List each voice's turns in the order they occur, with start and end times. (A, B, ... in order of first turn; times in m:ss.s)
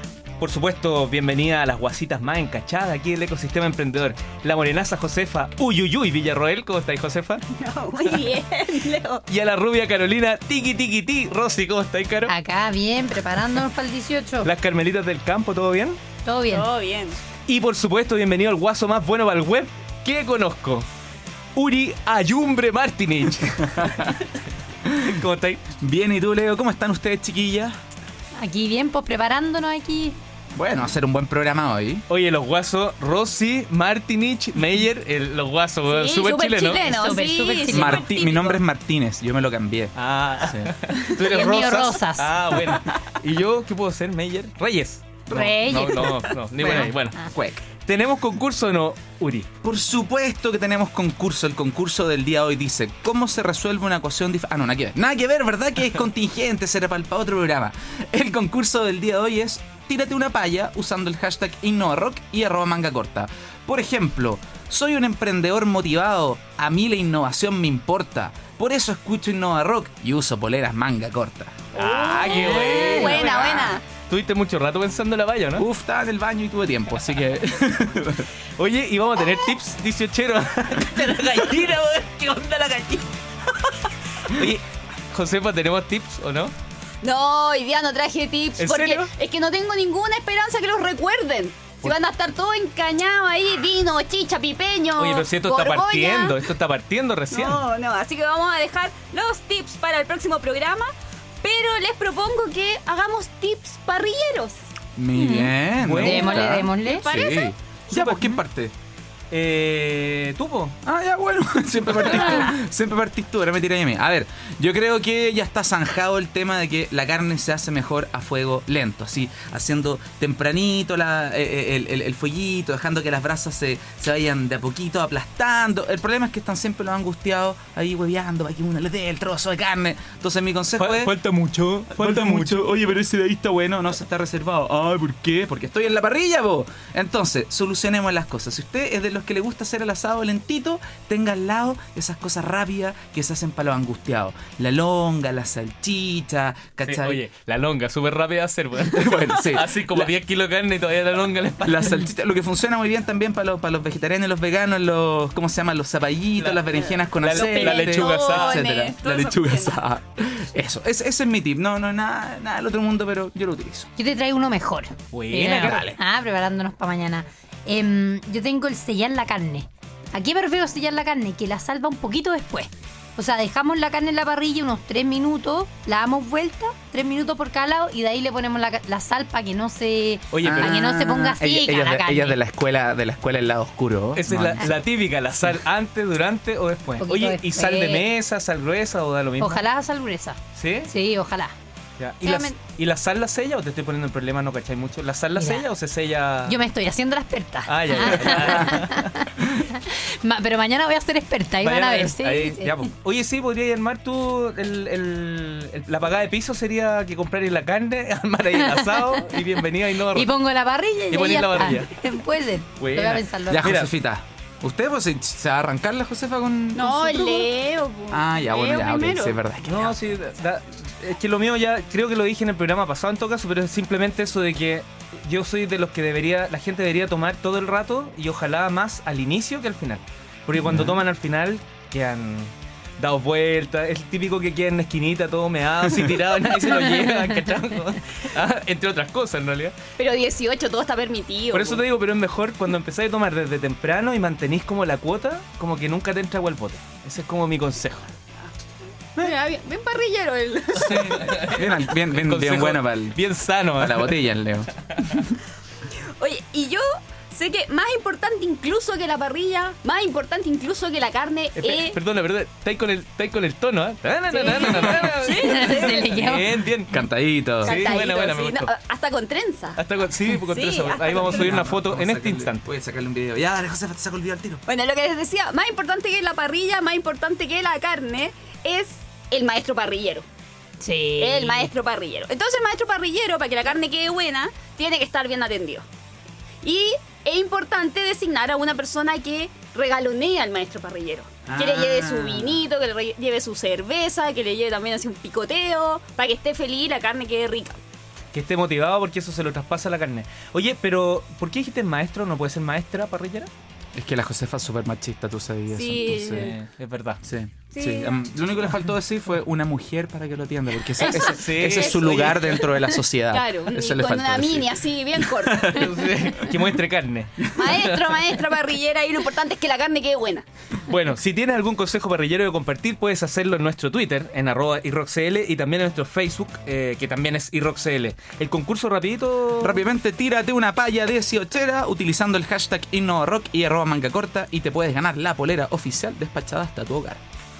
0:00.4-0:07.4 A
0:07.5-0:09.2 B
0:08.0-0:08.3 A
0:09.3-0:12.4 A
0:12.3-0:14.5 C
0:14.4-0:16.0 A
0:16.2-0:16.7 C
0:16.5-0:17.2 B
0:17.5-0:20.8 A
0:21.6-0:24.2 A
0:24.9-0:25.6 A
0:25.8-0:27.7 D
0:28.4-0:30.2 C
0:30.5-0:32.0 D
0:32.1-0:36.8 A
0:35.9-0:38.6 B
0:36.7-0:38.1 C
0:37.7-0:39.9 D
0:40.0-0:49.5 A
0:41.2-0:42.3 C
0:45.3-0:46.8 C
0:45.3-0:47.6 D
0:49.6-1:13.1 D
1:11.8-1:13.8 B
1:11.8-1:15.7 A
1:12.8-1:13.1 C
1:15.6-1:18.3 D
1:18.6-1:23.1 A
1:24.2-1:26.5 A
1:27.0-1:36.4 B
1:28.6-1:29.1 A
1:35.0-1:37.6 A
1:37.3-1:40.9 B
1:41.4-1:44.6 B
1:45.0-1:48.7 D
1:45.2-1:45.5 C
1:45.8-1:46.4 A
1:46.0-1:47.1 C
1:46.3-1:47.6 B
1:47.9-1:48.4 A
1:49.3-1:50.8 A
1:50.8-2:11.1 D
2:10.8-2:12.6 A
2:11.9-2:27.2 D
2:26.8-2:32.0 A
2:28.9-2:30.1 D
2:31.6-2:43.9 D
2:36.4-2:38.6 A
2:37.3-2:39.8 B
2:44.0-3:02.4 C
2:45.1-2:46.0 A
2:45.4-2:46.0 D
3:00.3-3:00.9 A
3:00.4-3:04.8 D
3:04.2-3:09.6 A
3:07.0-3:08.1 C
3:09.4-3:11.5 C
3:10.5-3:10.9 A
3:12.0-3:16.6 A
3:12.2-3:12.6 C
3:15.4-3:15.7 C
3:16.4-3:22.8 C
3:17.7-3:19.1 A
3:21.6-3:30.3 A
3:28.6-3:33.7 C
3:31.1-3:31.9 A
3:32.8-3:33.9 A
3:33.5-3:37.5 D
3:36.7-3:39.4 B
3:38.1-3:40.0 D
3:39.6-3:59.8 A
3:50.6-3:51.0 D
4:00.0-4:01.8 B
4:01.5-4:08.1 A
4:09.1-4:11.3 B
4:10.8-4:13.2 D
4:10.8-4:14.2 A
4:13.7-4:15.4 D
4:16.2-4:22.0 B
4:21.6-4:27.0 A
4:24.3-4:26.1 B
4:25.4-4:26.6 C
4:26.9-4:28.0 D
4:27.6-4:28.7 A
4:27.6-4:29.8 B
4:29.8-4:32.6 A
4:30.5-4:31.5 B
4:31.2-4:34.6 D
4:34.7-4:40.2 B
4:40.8-4:41.7 C
4:41.2-4:45.8 B
4:46.6-4:57.8 B
4:51.5-4:52.6 A
4:58.3-5:03.5 A
5:03.9-5:06.6 D
5:05.7-5:06.6 B
5:06.3-5:07.2 A
5:07.2-5:16.6 D
5:07.7-5:08.3 B
5:11.0-5:12.7 B
5:11.0-5:12.6 A
5:13.3-5:15.8 B
5:15.7-5:18.0 A
5:17.5-5:20.4 B
5:20.8-5:29.8 A
5:29.6-5:37.2 D